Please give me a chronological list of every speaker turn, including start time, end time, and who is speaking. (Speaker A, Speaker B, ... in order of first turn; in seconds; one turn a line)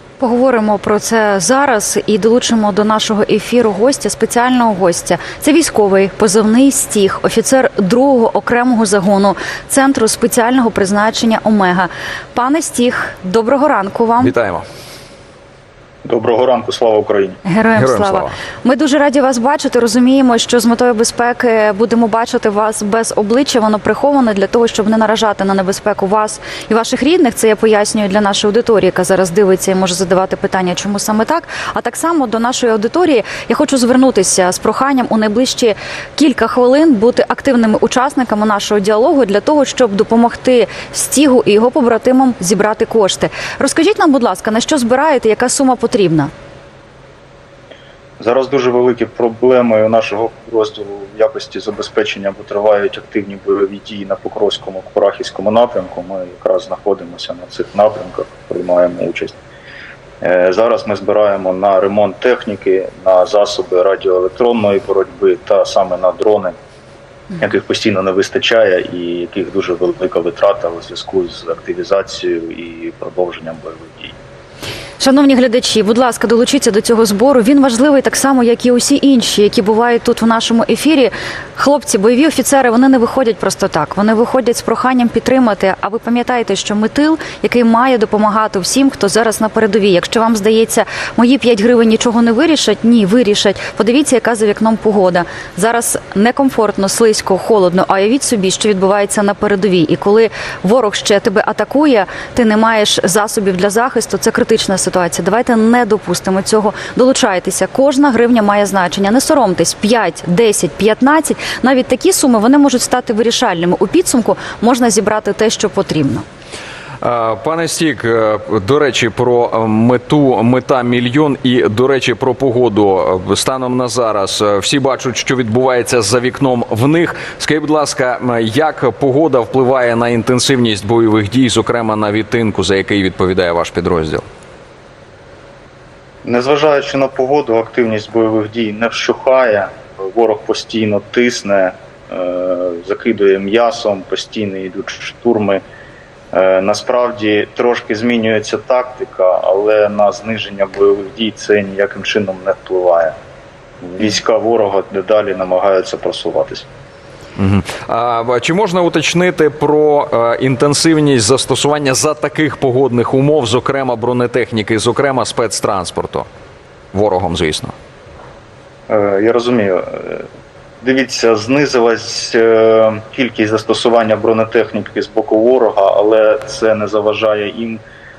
Speaker A: 0.2-14.3
Speaker B: 14.2-14.7
Speaker C: 16.0-17.4
Speaker A: 17.4-46.3
Speaker B: 17.8-18.3
Speaker C: 48.2-59.4
Speaker C: 60.2-66.5
Speaker C: 67.4-74.2
Speaker A: 75.0-116.2
Speaker B: 117.0-134.2
Speaker C: 136.2-145.6
Speaker C: 146.3-153.2
Speaker C: 153.8-156.7
Speaker B: 157.4-166.3
Speaker B: 166.9-167.8
Speaker C: 168.9-170.3
Speaker C: 170.8-177.8